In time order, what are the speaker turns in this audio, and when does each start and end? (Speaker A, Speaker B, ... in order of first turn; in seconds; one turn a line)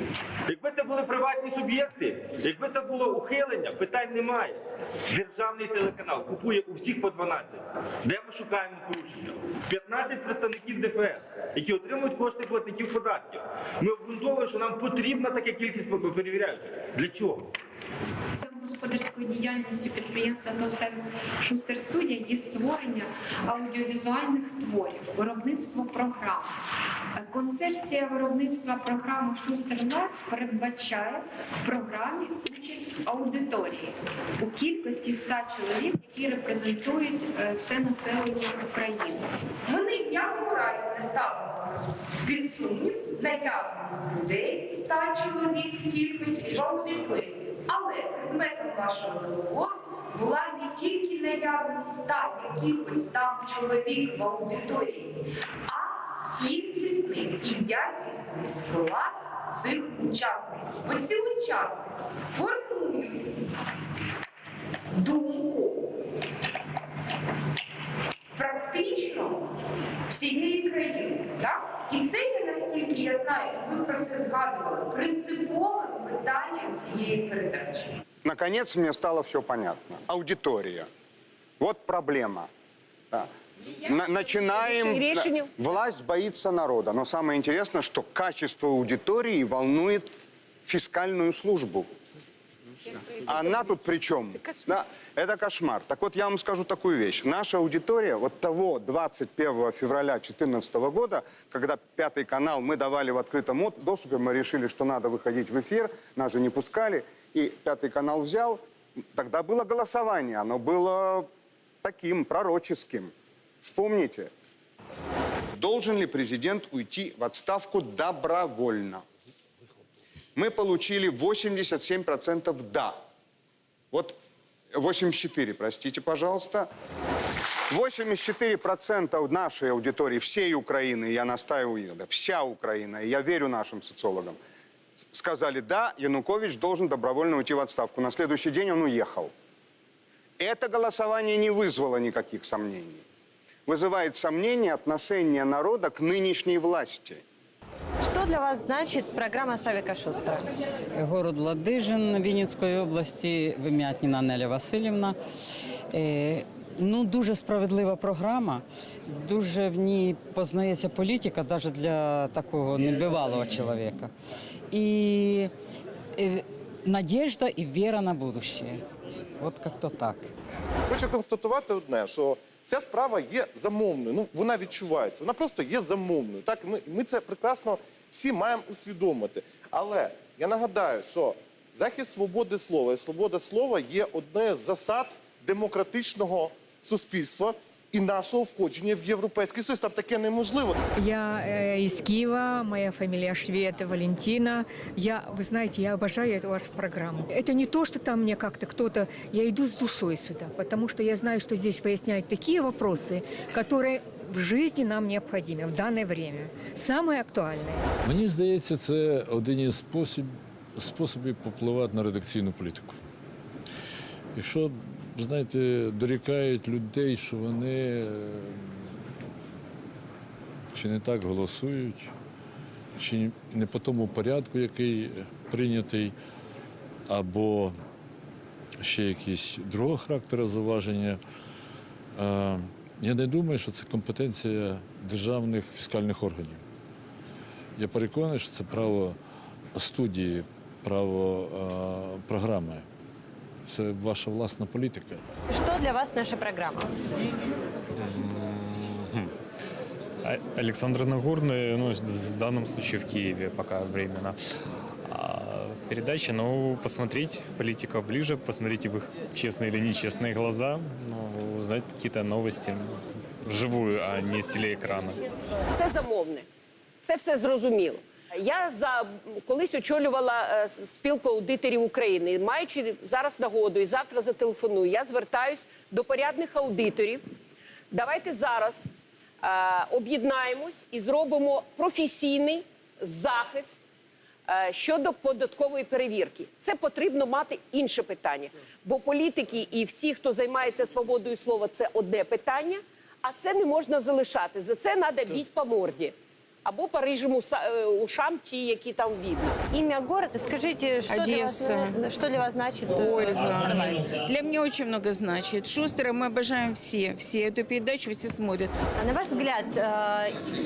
Speaker A: 0.5-17.4
Speaker B: 18.4-26.6
Speaker B: 27.1-63.3
Speaker B: 64.9-65.9
Speaker B: 68.3-69.4
Speaker B: 70.1-78.0
Speaker C: 78.2-80.9
Speaker C: 81.6-82.5
Speaker C: 83.8-90.1
Speaker D: 84.5-85.5
Speaker C: 90.7-91.9
Speaker C: 93.2-108.6
Speaker C: 109.1-111.3
Speaker C: 111.8-114.3
Speaker C: 115.5-119.0
Speaker C: 120.3-123.0
Speaker C: 123.9-124.2
Speaker C: 124.7-126.7
Speaker C: 127.7-134.4
Speaker C: 135.1-139.3
Speaker C: 140.4-143.0
Speaker C: 143.7-147.2
Speaker E: 148.0-150.5
Speaker F: 150.9-155.2
Speaker F: 155.9-164.1
Speaker F: 164.7-165.5
Speaker F: 166.2-168.8
Speaker F: 169.4-170.3
Speaker G: 170.9-190.8
Speaker H: 190.9-207.8
Speaker I: 208.0-213.0
Speaker I: 214.3-218.9
Speaker I: 220.7-222.1
Speaker I: 223.0-226.1
Speaker I: 227.1-227.7
Speaker I: 228.8-231.2
Speaker I: 232.1-236.6
Speaker I: 237.8-239.2
Speaker I: 239.7-242.8
Speaker I: 243.6-245.2
Speaker E: 245.5-246.9
Speaker J: 248.0-249.3
Speaker J: 250.2-254.4
Speaker J: 255.1-265.2
Speaker D: 265.7-266.4
Speaker D: 267.0-277.2
Speaker D: 277.9-278.9
Speaker D: 279.4-283.8
Speaker D: 284.5-296.1
Speaker D: 296.6-299.6
Speaker E: 299.7-304.1
Speaker K: 301.1-301.9
Speaker K: 302.9-308.7
Speaker E: 308.9-310.4